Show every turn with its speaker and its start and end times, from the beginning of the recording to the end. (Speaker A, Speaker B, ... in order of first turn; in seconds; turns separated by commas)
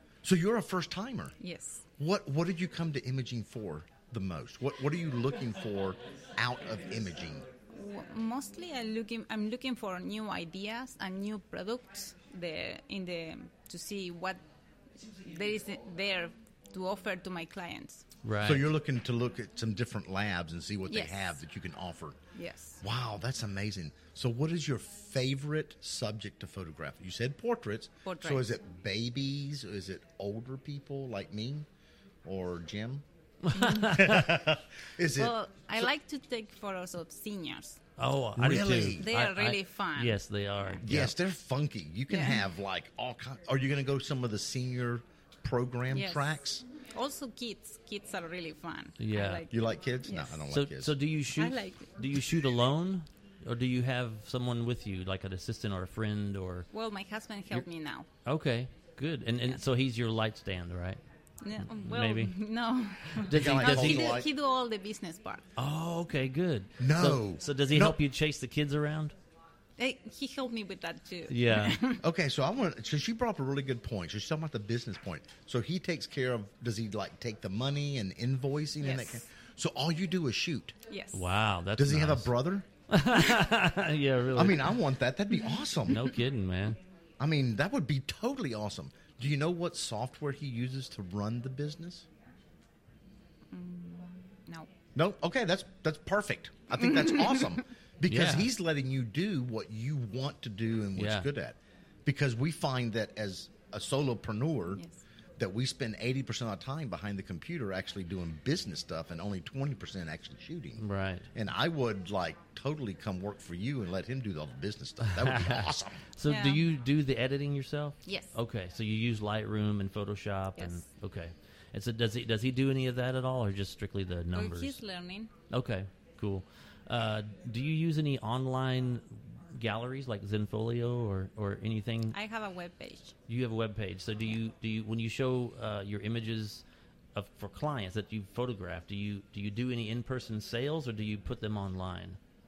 Speaker A: 0.2-1.3, Speaker B: 1.4-1.8, Speaker A: 2.0-7.4, Speaker B: 7.7-14.4, Speaker B: 15.1-18.0, Speaker C: 18.2-18.7, Speaker A: 18.4-22.2, Speaker B: 20.9-21.4, Speaker B: 22.3-22.8, Speaker A: 22.8-31.7, Speaker B: 28.0-28.6, Speaker A: 32.2-33.0, Speaker C: 33.5-34.4, Speaker B: 33.5-33.9, Speaker A: 33.6-35.9, Speaker B: 35.1-37.8, Speaker C: 38.0-41.1, Speaker A: 38.4-39.1, Speaker B: 38.9-40.8, Speaker A: 40.8-46.6, Speaker B: 42.1-42.4, Speaker B: 45.9-46.4, Speaker B: 46.9-50.4, Speaker C: 49.0-49.4, Speaker A: 49.5-50.9, Speaker C: 50.5-56.7, Speaker B: 51.3-51.9, Speaker B: 56.7-58.1, Speaker C: 58.2-61.0, Speaker B: 61.4-65.5, Speaker C: 61.6-62.4, Speaker C: 63.2-64.2, Speaker A: 63.3-64.3, Speaker C: 65.5-69.1, Speaker A: 66.8-68.0, Speaker B: 69.8-72.0, Speaker C: 71.3-71.8, Speaker A: 72.0-80.7, Speaker B: 78.8-79.2, Speaker B: 80.9-81.2, Speaker C: 81.1-82.3, Speaker A: 81.8-82.7, Speaker C: 82.9-84.8, Speaker A: 84.3-86.0, Speaker C: 85.9-86.8, Speaker A: 87.2-92.1, Speaker B: 93.5-94.7, Speaker A: 94.9-104.8, Speaker B: 96.8-97.5, Speaker C: 98.1-98.5, Speaker C: 101.0-101.3, Speaker B: 104.8-105.0, Speaker A: 105.4-110.8, Speaker C: 110.8-111.3, Speaker A: 111.3-116.0, Speaker C: 115.1-124.8, Speaker B: 116.2-116.6, Speaker B: 118.0-118.3, Speaker B: 120.6-120.8, Speaker B: 124.3-125.3, Speaker C: 125.5-132.2, Speaker B: 132.1-133.1, Speaker C: 133.3-136.6, Speaker C: 137.1-142.2